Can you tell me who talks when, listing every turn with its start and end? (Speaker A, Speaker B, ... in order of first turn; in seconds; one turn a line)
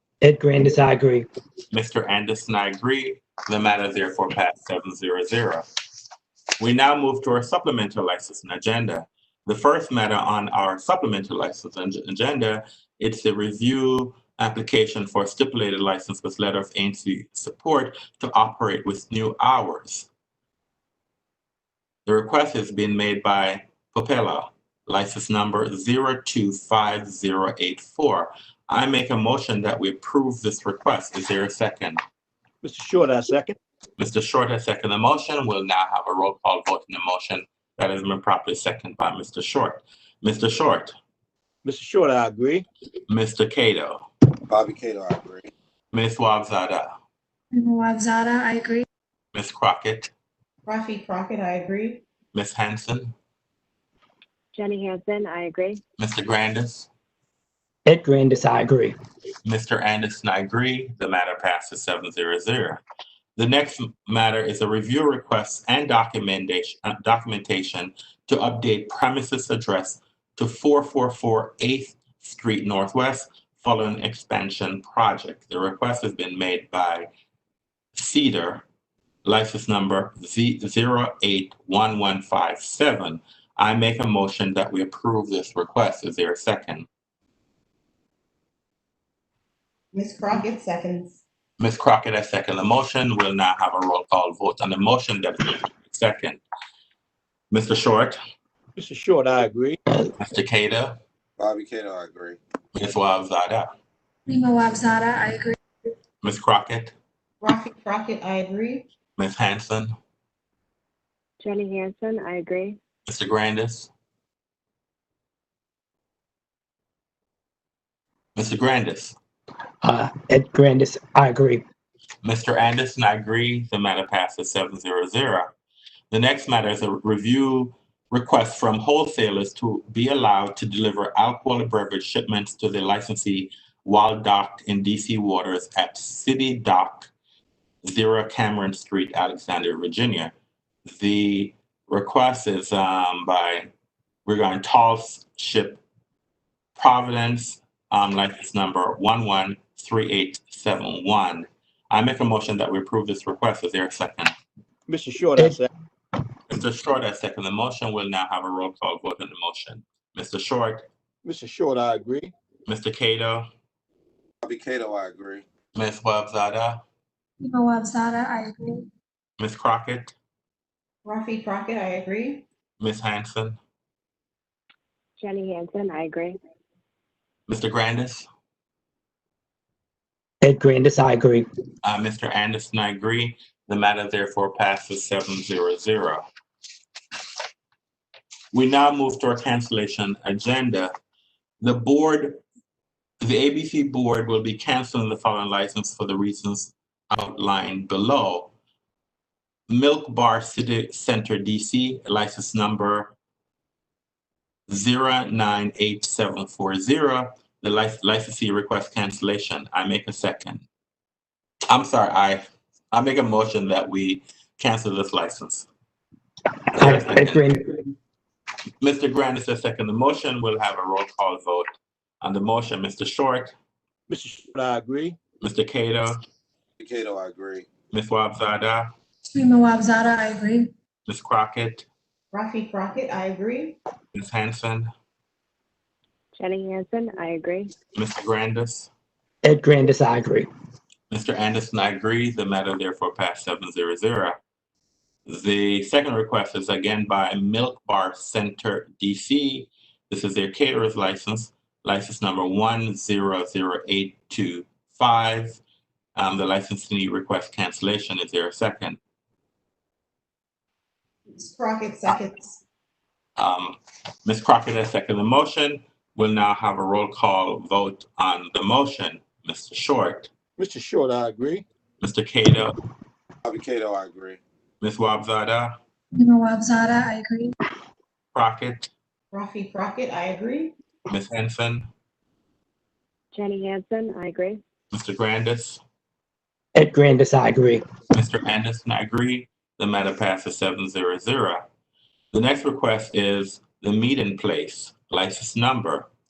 Speaker A: 0.2-1.3
Speaker B: 1.7-5.7
Speaker B: 6.6-20.1
Speaker B: 22.1-32.0
Speaker C: 32.6-33.6
Speaker B: 34.0-40.9
Speaker C: 41.6-42.7
Speaker B: 43.1-44.1
Speaker D: 44.5-45.5
Speaker B: 45.9-46.9
Speaker E: 47.5-48.9
Speaker B: 49.3-50.1
Speaker F: 50.7-52.0
Speaker B: 52.3-53.1
Speaker G: 54.5-55.8
Speaker B: 56.0-56.9
Speaker A: 57.9-59.0
Speaker B: 59.4-62.8
Speaker B: 63.4-77.1
Speaker B: 78.0-78.7
Speaker B: 79.2-86.9
Speaker F: 89.9-91.2
Speaker B: 91.6-96.4
Speaker B: 97.5-98.2
Speaker C: 98.8-99.8
Speaker B: 100.2-101.0
Speaker D: 101.4-102.4
Speaker B: 102.7-103.7
Speaker E: 104.3-105.6
Speaker B: 106.2-106.9
Speaker F: 107.4-108.9
Speaker B: 109.2-110.0
Speaker G: 111.4-112.8
Speaker B: 113.1-113.9
Speaker B: 118.4-119.2
Speaker A: 119.8-121.6
Speaker B: 122.2-125.5
Speaker B: 126.1-137.1
Speaker B: 137.8-140.3
Speaker B: 140.9-143.7
Speaker B: 144.3-145.8
Speaker B: 146.8-154.3
Speaker C: 154.9-155.7
Speaker B: 156.5-160.8
Speaker C: 161.2-162.3
Speaker B: 162.7-163.5
Speaker D: 164.4-165.4
Speaker B: 165.8-166.8
Speaker E: 167.4-168.9
Speaker B: 169.4-170.2
Speaker F: 171.1-172.4
Speaker B: 172.8-173.6
Speaker G: 175.2-176.4
Speaker B: 177.5-178.3
Speaker A: 180.4-181.5
Speaker B: 181.8-186.2
Speaker B: 188.5-190.9
Speaker B: 191.6-192.4
Speaker B: 193.2-198.5
Speaker B: 199.7-203.1
Speaker B: 204.7-210.6
Speaker B: 211.7-215.7
Speaker B: 216.7-217.6
Speaker A: 216.8-217.9
Speaker B: 218.8-221.7
Speaker B: 222.2-223.6
Speaker C: 224.1-225.2
Speaker B: 225.4-226.2
Speaker D: 226.8-227.7
Speaker B: 227.9-228.9
Speaker E: 229.3-230.7
Speaker B: 231.1-231.9
Speaker F: 232.3-233.8
Speaker B: 234.1-234.9
Speaker G: 236.3-237.7
Speaker B: 237.9-238.9
Speaker A: 239.4-240.5
Speaker B: 241.1-244.4
Speaker B: 245.3-255.6
Speaker B: 256.1-259.0
Speaker F: 261.3-262.6
Speaker B: 263.4-270.3
Speaker C: 270.6-271.7
Speaker B: 272.0-272.8
Speaker D: 273.4-274.4
Speaker B: 274.8-275.7
Speaker E: 276.1-277.5
Speaker B: 278.3-278.9
Speaker F: 279.3-280.7
Speaker B: 281.1-281.9
Speaker G: 283.3-284.6
Speaker B: 284.9-285.8
Speaker A: 286.8-287.8
Speaker B: 288.1-291.6
Speaker B: 292.3-296.1